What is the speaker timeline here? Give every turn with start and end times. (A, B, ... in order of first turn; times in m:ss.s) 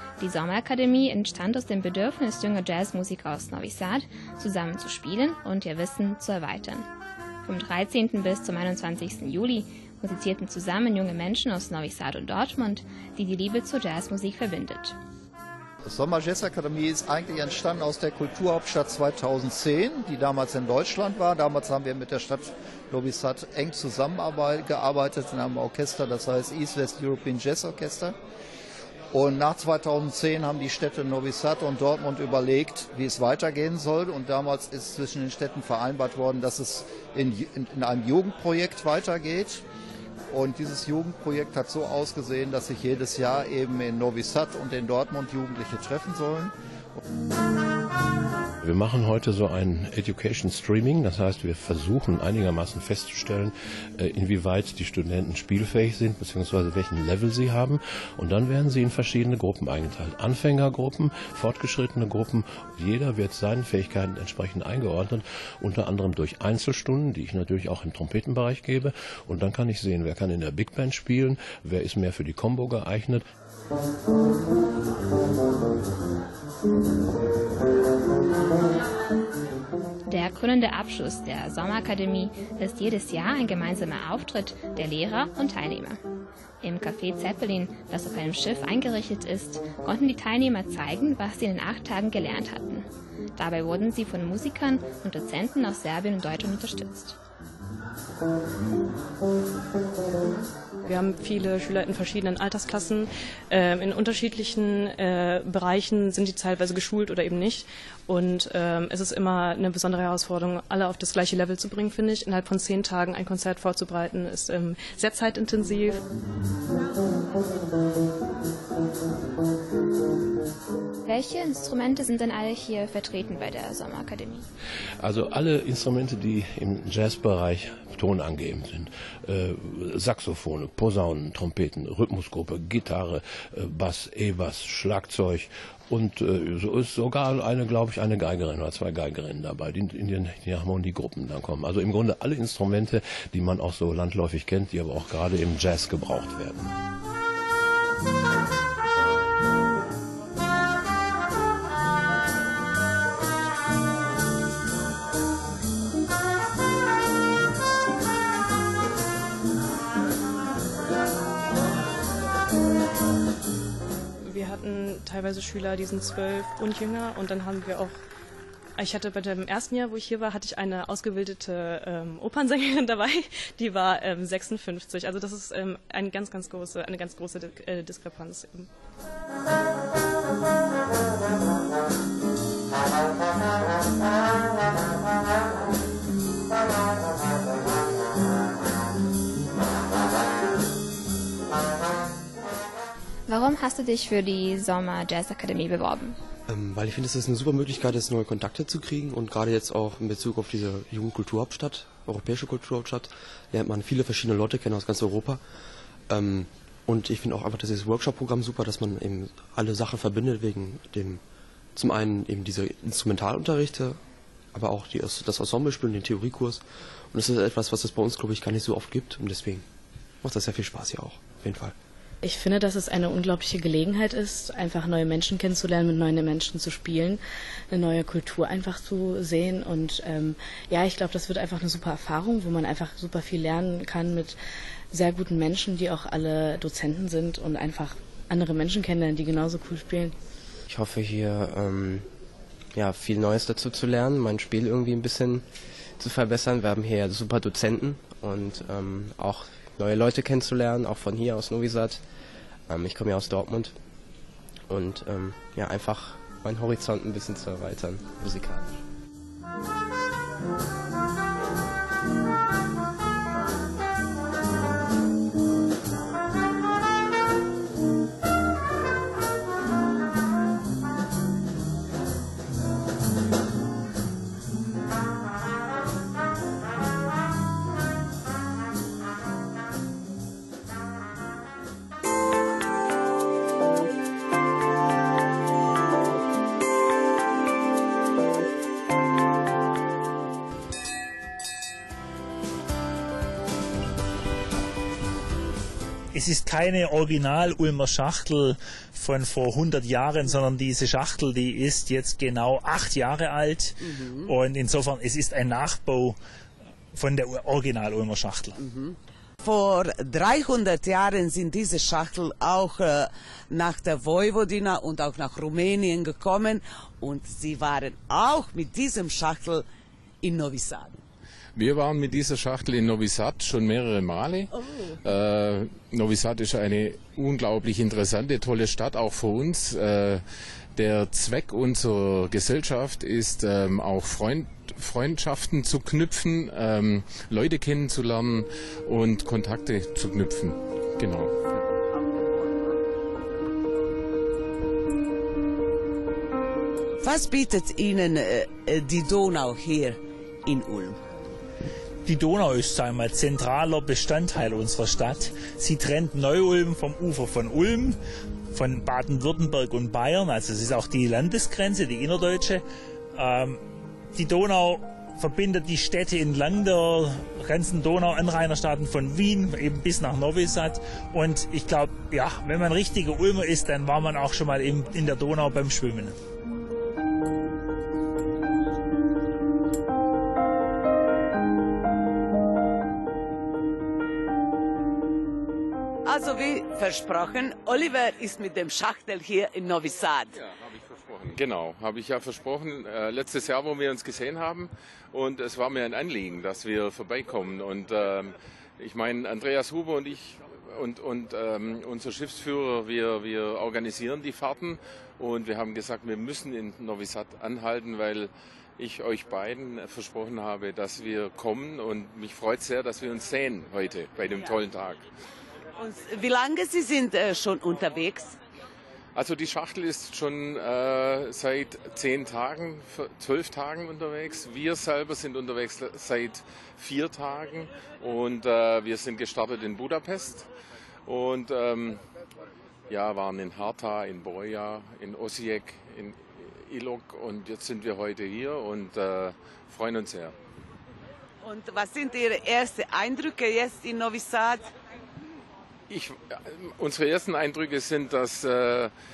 0:00.2-0:06.9 A
0:07.4-0:15.0 A
0:15.8-0:28.1 B
0:29.1-0:39.6 B
0:40.3-0:46.5 B
0:48.6-1:13.2 C
1:20.0-1:26.0 A
1:26.6-1:37.2 A
1:40.8-1:56.0 D
2:01.0-2:04.5 A
2:05.0-2:26.7 C
2:44.2-2:48.0 D
2:48.8-2:58.7 D
3:13.3-3:16.2 A
3:16.5-3:39.7 E
3:40.2-3:41.8 E
3:42.2-3:54.4 F
3:54.9-4:00.2 F
4:00.7-4:18.8 G
4:56.1-5:06.2 H
5:03.8-5:04.3 I
5:06.9-5:08.6 H
5:08.6-5:19.6 I
5:20.2-5:21.0 I
5:21.6-5:24.5 J
5:24.6-5:25.0 I
5:25.0-5:30.2 J
5:30.7-5:41.3 J
5:47.0-5:51.0 I
5:52.0-5:58.0 H
5:58.5-6:02.6 H
6:03.1-6:03.6 H
6:04.1-6:16.2 H
6:26.0-6:30.4 I
6:30.3-6:55.0 J
6:55.8-6:58.4 I
6:59.1-7:10.5 J
7:11.0-7:12.0 J
7:12.9-7:20.3 J
7:21.4-7:24.7 I
7:25.9-7:28.9 J